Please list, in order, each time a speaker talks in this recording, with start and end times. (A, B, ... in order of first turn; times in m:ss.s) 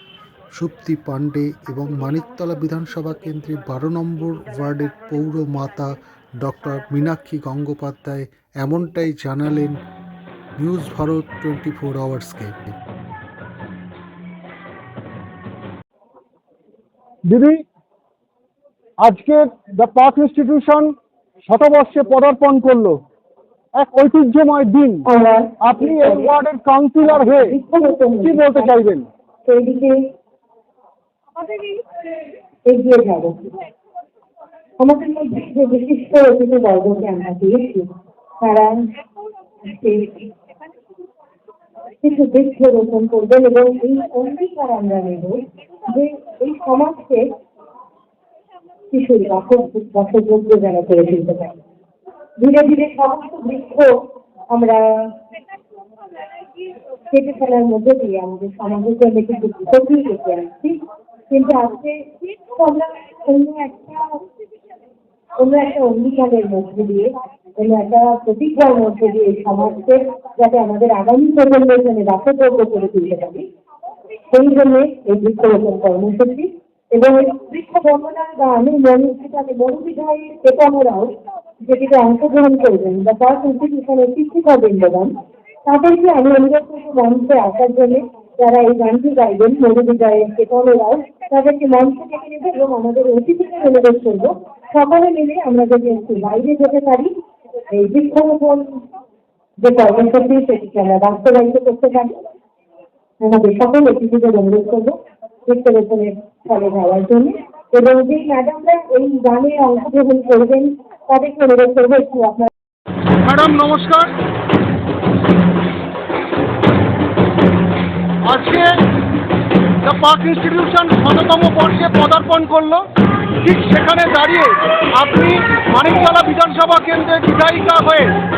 0:00.6-0:09.8 A
0:10.6-0:12.8 A
0:17.3-0:17.6 B
0:19.0-0:23.0 B
0:23.8-0:25.0 B
0:25.1-0:26.4 C
0:25.6-0:27.6 B
0:27.2-0:28.7 C
0:28.2-0:29.1 B
0:29.5-0:30.0 C
0:32.7-0:33.6 C
0:34.8-0:38.9 C
0:39.6-0:40.3 C
0:42.0-0:47.3 C
0:48.9-0:51.6 C
0:52.4-0:55.2 C
0:57.1-1:04.3 C
1:05.4-1:13.5 C
1:14.3-1:25.1 C
1:25.6-1:37.1 C
1:37.7-1:38.8 C
1:39.6-1:42.2 C
1:43.2-1:52.5 C
1:53.2-1:54.2 B
1:58.2-1:58.8 B
1:59.8-2:02.9 B
2:03.4-2:08.2 B